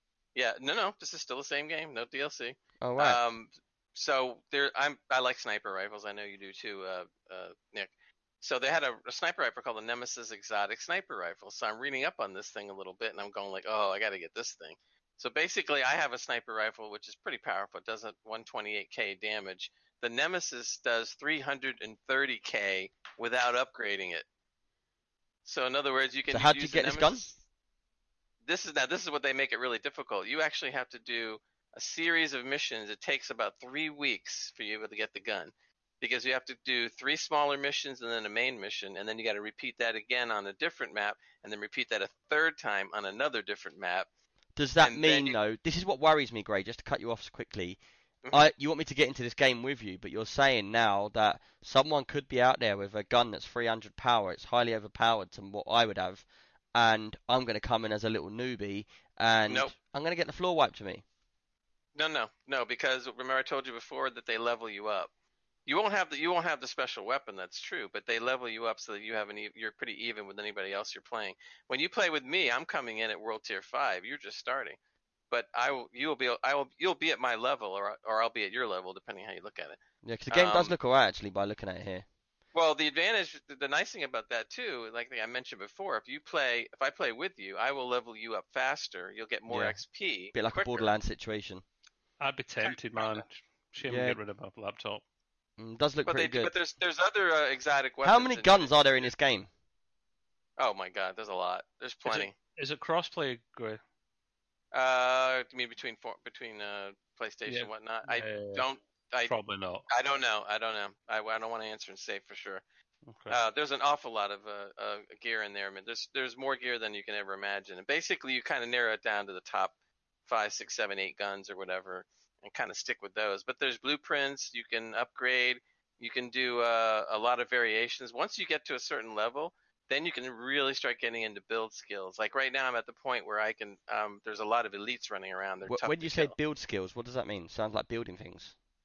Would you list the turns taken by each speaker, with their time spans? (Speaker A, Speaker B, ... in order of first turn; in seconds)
Speaker A: 0.3-7.9, 8.4-24.2, 25.4-27.3, 28.4-44.1, 44.8-45.4, 62.0-65.1, 65.7-74.8, 75.3-79.8, 80.3-80.7, 82.5-90.9, 92.6-93.2, 96.0-99.1, 100.6-102.3, 104.7-109.3, 109.9-112.6, 113.3-119.7, 120.2-136.3
Speaker B: 2.8-3.2, 26.3-27.2, 44.6-47.8, 48.3-61.0, 80.0-82.0, 89.5-89.8, 90.3-91.6, 93.8-94.2, 95.6-96.5, 98.0-99.5, 135.7-138.5
Speaker C: 92.2-95.0, 102.0-103.8, 107.5-108.6, 109.2-109.8, 113.1-113.4